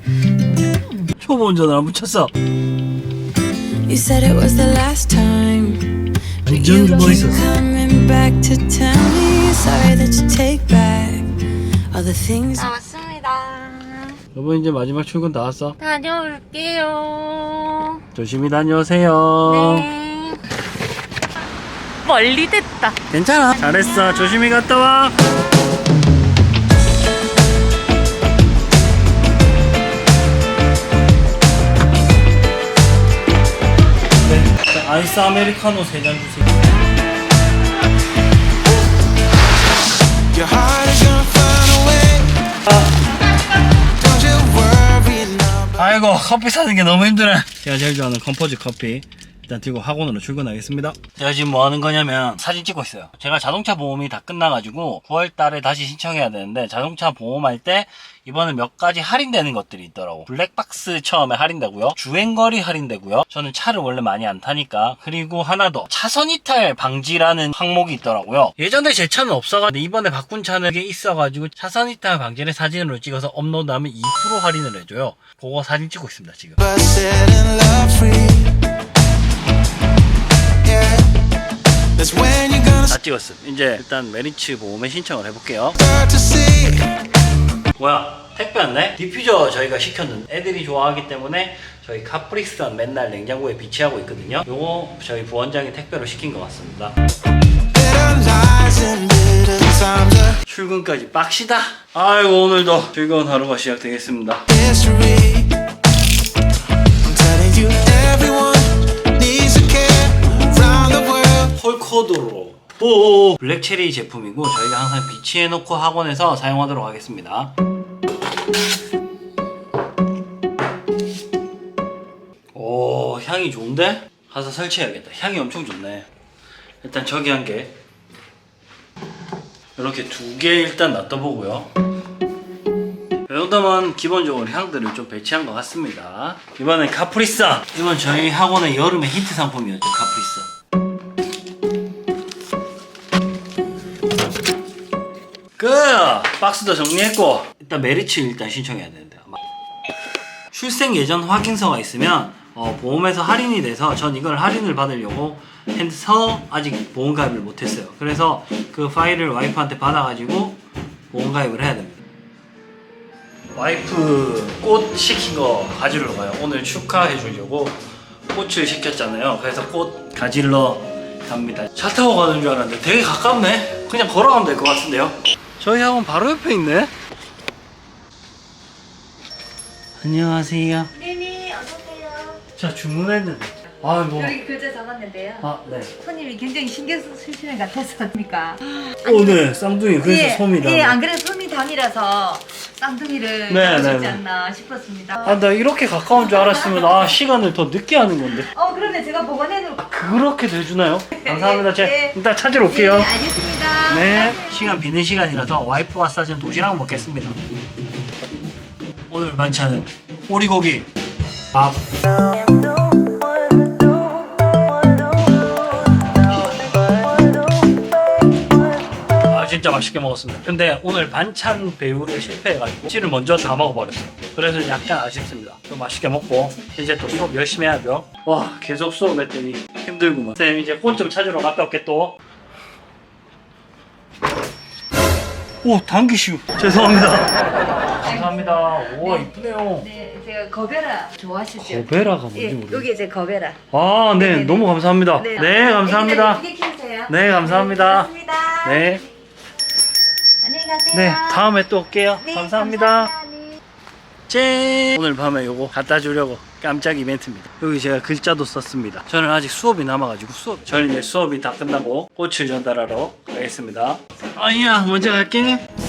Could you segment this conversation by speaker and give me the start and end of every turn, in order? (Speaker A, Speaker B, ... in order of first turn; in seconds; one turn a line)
Speaker A: 0.5-1.1
Speaker B: 1.2-2.3
Speaker C: 3.9-5.9
Speaker B: 6.5-7.5
Speaker C: 6.5-11.3
Speaker C: 11.9-12.7
Speaker A: 12.5-14.2
Speaker B: 14.3-15.8
Speaker A: 15.8-18.0
Speaker B: 18.1-19.9
Speaker A: 19.4-20.4
Speaker A: 22.0-23.0
Speaker B: 23.1-25.1
Speaker B: 34.2-36.8
Speaker D: 40.3-42.4
Speaker D: 44.0-45.8
Speaker B: 45.8-76.6
Speaker D: 76.6-78.5
Speaker D: 80.6-81.1
Speaker D: 82.0-82.9
Speaker B: 82.9-85.8
Speaker D: 85.8-86.9
Speaker B: 87.8-97.0
Speaker D: 97.7-100.4
Speaker B: 100.5-104.5
Speaker D: 104.5-105.5
Speaker D: 107.0-111.5
Speaker B: 111.5-117.5
Speaker B: 122.5-126.1
Speaker B: 126.8-127.8
Speaker B: 129.8-131.7
Speaker B: 133.3-140.5
Speaker B: 145.6-149.3
Speaker B: 150.5-162.0
Speaker B: 163.6-167.8
Speaker B: 168.3-176.9
Speaker B: 180.0-180.9
Speaker E: 180.9-182.4
Speaker B: 182.6-184.4
Speaker E: 184.2-185.5
Speaker B: 185.4-185.9
Speaker E: 186.0-189.4
Speaker B: 189.0-191.0
Speaker E: 190.0-195.4
Speaker B: 193.5-194.2
Speaker B: 195.2-198.5
Speaker E: 196.4-197.0
Speaker E: 198.5-199.8
Speaker B: 199.8-203.2
Speaker E: 201.2-202.2
Speaker E: 202.7-204.4
Speaker B: 203.9-207.4
Speaker B: 209.1-210.9
Speaker B: 211.5-211.8
Speaker B: 219.3-232.2
Speaker B: 235.6-239.9
Speaker E: 238.0-243.6
Speaker B: 241.6-242.9
Speaker B: 243.7-246.4
Speaker E: 244.2-249.0
Speaker B: 247.1-248.1
Speaker B: 248.6-249.0
Speaker E: 250.4-251.4
Speaker B: 250.9-253.1
Speaker E: 252.2-253.6
Speaker B: 254.3-265.6